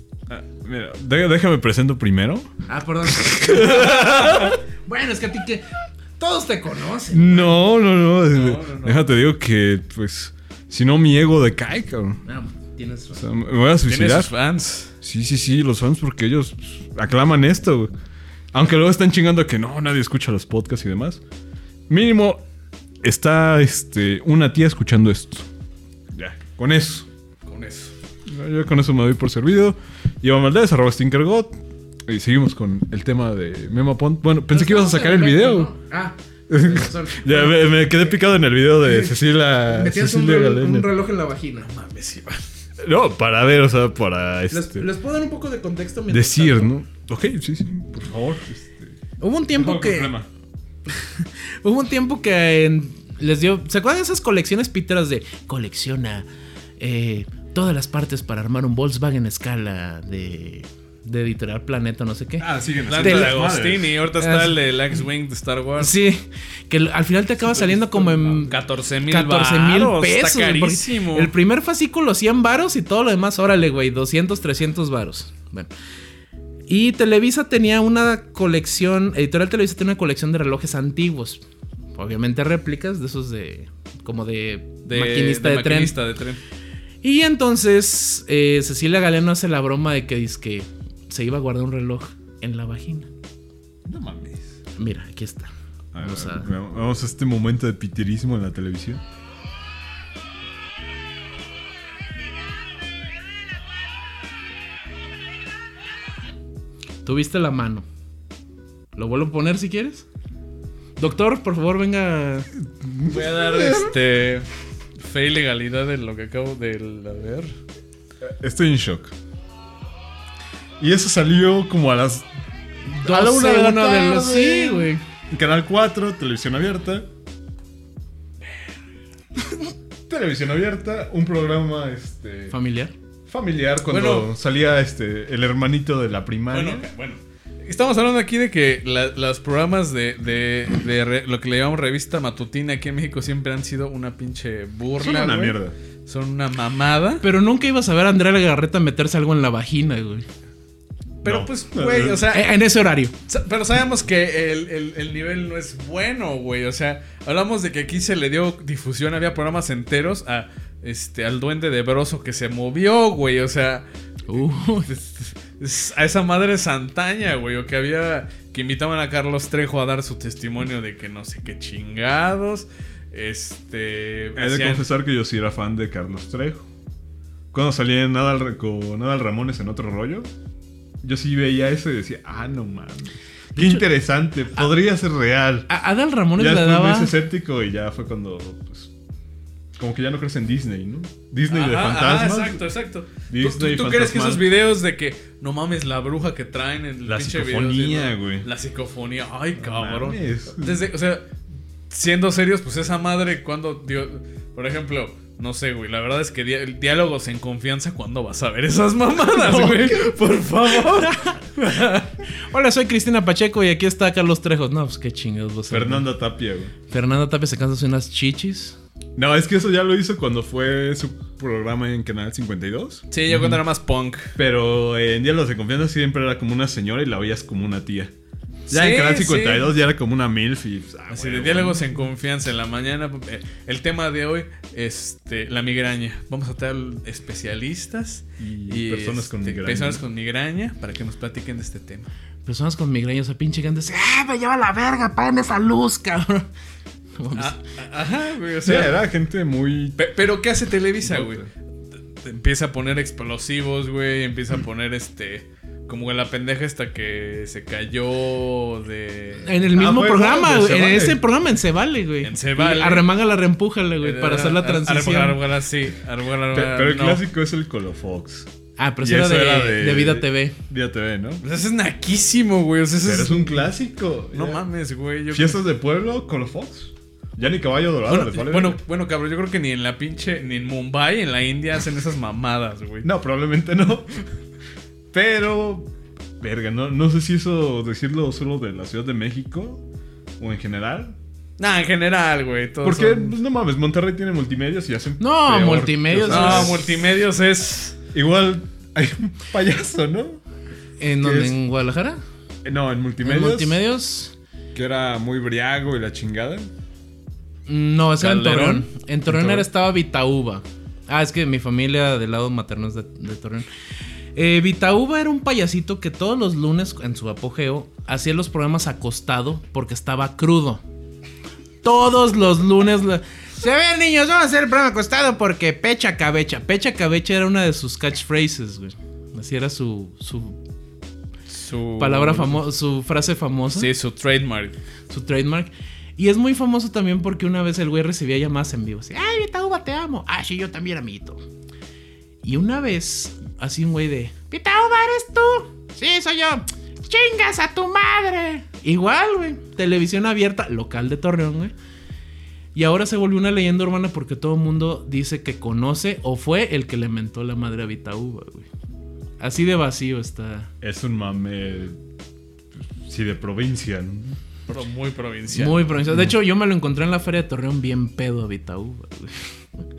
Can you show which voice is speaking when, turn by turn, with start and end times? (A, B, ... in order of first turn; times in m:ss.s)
0:00.3-0:02.5 A
0:02.7-0:07.6 B
0:03.1-0:04.6 A
0:07.1-0:12.2 A
0:08.3-0:09.0 C
0:12.2-0:13.2 B
0:13.1-0:14.3 A
0:13.8-0:14.9 C
0:15.0-0:17.9 A
0:18.5-0:21.2 A
0:21.9-0:22.4 A
0:23.0-0:25.5 A
0:26.1-0:27.1 A
0:27.4-0:27.9 C
0:28.3-0:31.5 A
0:32.1-0:35.7 A
0:34.5-0:37.9 B
0:36.5-0:40.9 A
0:39.6-0:41.7 B
0:41.7-0:42.4 C
0:42.8-0:44.9 A
0:44.5-0:46.7 B
0:46.1-0:48.9 A
0:49.2-0:50.1 B
0:49.5-0:50.3 A
0:50.9-0:56.3 B
0:56.8-1:02.5 B
1:02.4-1:03.9 A
1:02.8-1:05.9 C
1:03.0-1:03.3 B
1:04.2-1:04.6 B
1:05.8-1:15.7 B
1:08.0-1:11.3 C
1:16.7-1:21.4 B
1:21.9-1:25.9 B
1:24.8-1:26.4 C
1:27.0-1:33.1 B
1:33.8-1:34.5 A
1:34.8-1:36.5 B
1:35.9-1:39.0 A
1:47.0-1:47.8 B
1:49.0-1:50.0 B
1:51.0-1:52.5 B
1:52.7-1:53.9 A
1:53.0-1:54.4 C
1:55.0-1:57.6 C
1:58.2-1:59.1 A
2:00.8-2:02.3 A
2:02.9-2:05.0 B
2:02.9-2:07.1 A
2:10.1-2:12.5 A
2:12.5-2:12.9 B
2:13.3-2:16.9 A
2:13.9-2:14.3 C
2:16.5-2:27.2 C
2:25.0-2:25.7 A
2:27.2-2:30.2 B
2:31.2-2:32.5 C
2:31.2-2:32.2 A
2:32.3-2:33.1 B
2:33.3-2:43.8 C
2:44.3-2:44.9 B
2:44.8-2:54.8 C
2:54.4-2:56.7 A
2:57.5-3:00.3 A
3:01.0-3:05.7 A
3:03.6-3:03.8 B
3:05.7-3:07.1 B
3:06.4-3:08.9 A
3:09.8-3:12.6 A
3:11.5-3:21.2 C
3:13.3-3:14.5 A
3:17.0-3:18.5 A
3:19.5-3:20.9 A
3:21.9-3:32.0 C
3:29.2-3:31.2 A
3:31.3-3:36.1 B
3:35.7-3:36.7 A
3:36.9-3:38.8 B
3:39.2-3:43.0 A
3:43.1-3:44.3 C
3:44.4-3:48.1 A
3:48.7-3:49.7 C
3:48.7-3:51.9 A
3:51.1-4:02.1 C
3:58.4-4:00.0 A
4:02.4-4:06.5 B
4:07.2-4:07.6 B
4:07.3-4:09.0 C
4:08.6-4:10.0 A
4:10.0-4:11.4 C
4:11.0-4:11.5 A
4:12.2-4:19.5 C
4:19.4-4:25.4 B
4:19.7-4:21.2 A
4:22.2-4:23.1 C
4:24.0-4:27.2 C
4:26.5-4:28.5 A
4:28.8-4:30.6 B
4:29.0-4:31.4 A
4:31.4-4:33.7 C
4:33.0-4:34.6 A
4:34.3-4:35.6 C
4:35.3-4:38.8 A
4:38.1-4:43.1 C
4:43.0-4:44.1 A
4:45.1-4:49.8 A
4:50.4-4:51.2 A
4:51.6-4:53.4 C
4:52.8-4:57.0 A
4:55.2-4:56.8 B
4:56.3-4:58.0 C
4:58.1-5:00.4 A
5:01.0-5:02.2 B
5:01.2-5:01.6 A
5:02.6-5:03.8 A
5:03.2-5:04.3 B
5:04.7-5:06.7 A
5:07.7-5:13.7 B
5:08.2-5:09.6 C
5:14.4-5:20.8 B
5:21.8-5:30.6 B
5:31.5-5:32.6 C
5:32.0-5:33.9 B
5:33.7-5:34.7 C
5:35.1-5:41.4 B
5:42.4-5:51.7 B
5:52.7-5:58.7 B
5:59.4-6:00.7 B
6:00.8-6:02.0 A
6:02.8-6:04.4 A
6:04.7-6:05.9 C
6:05.5-6:09.5 B